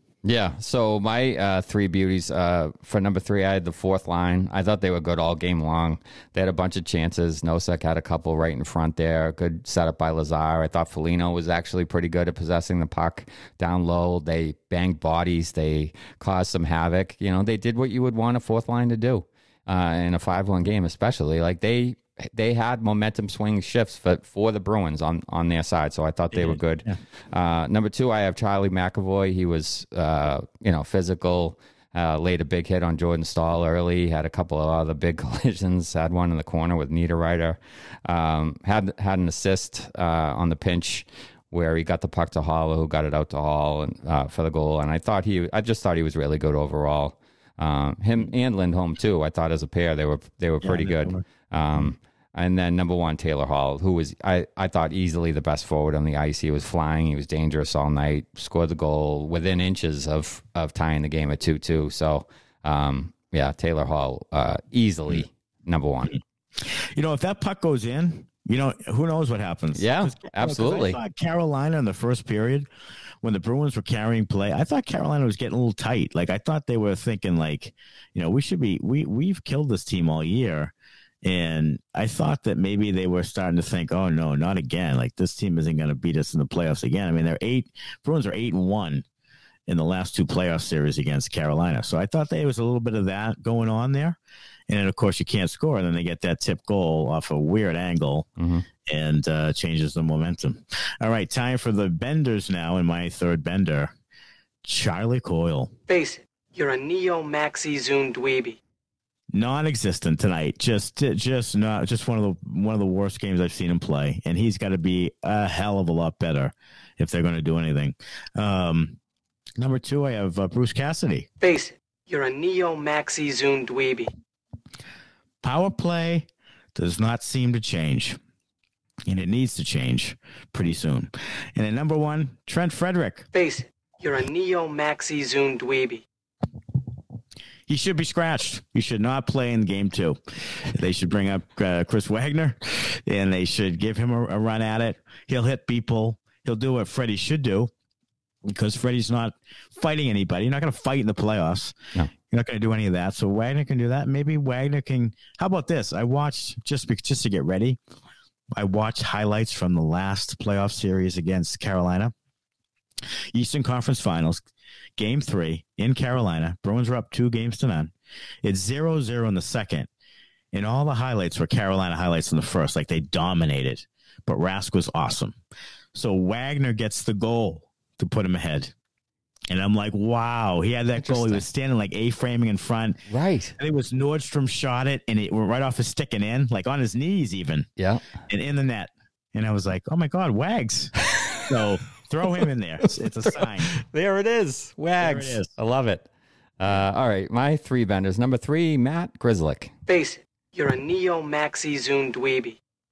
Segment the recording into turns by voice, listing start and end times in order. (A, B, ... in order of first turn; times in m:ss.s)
0:00.2-1:06.2 A
0:26.3-0:27.0 B
0:50.6-0:51.2 B
1:06.6-1:12.7 B
1:09.8-1:11.0 A
1:13.2-1:29.0 B
1:29.7-1:34.2 B
1:34.7-1:38.3 B
1:38.4-1:38.7 A
1:38.9-1:43.9 B
1:44.6-1:45.7 B
1:45.9-1:48.6 C
1:49.3-1:59.0 B
1:59.6-2:01.3 B
2:01.4-2:04.1 C
2:05.4-2:08.2 B
2:09.1-2:13.3 B
2:13.3-2:16.0 C
2:17.7-2:27.7 B
2:28.4-2:31.8 B
2:32.3-2:37.8 B
2:38.5-2:42.1 B
2:43.3-2:44.4 B
2:45.0-2:47.9 B
2:48.4-2:49.9 B
2:50.5-2:55.4 B
2:55.9-2:58.7 B
2:59.5-3:03.0 B
3:01.0-3:01.5 A
3:03.1-3:03.6 A
3:03.6-3:07.7 B
3:07.8-3:08.0 A
3:08.3-3:13.7 B
3:11.1-3:11.4 A
3:13.0-3:16.1 A
3:15.0-3:15.5 B
3:16.6-3:19.7 A
3:19.9-3:22.6 C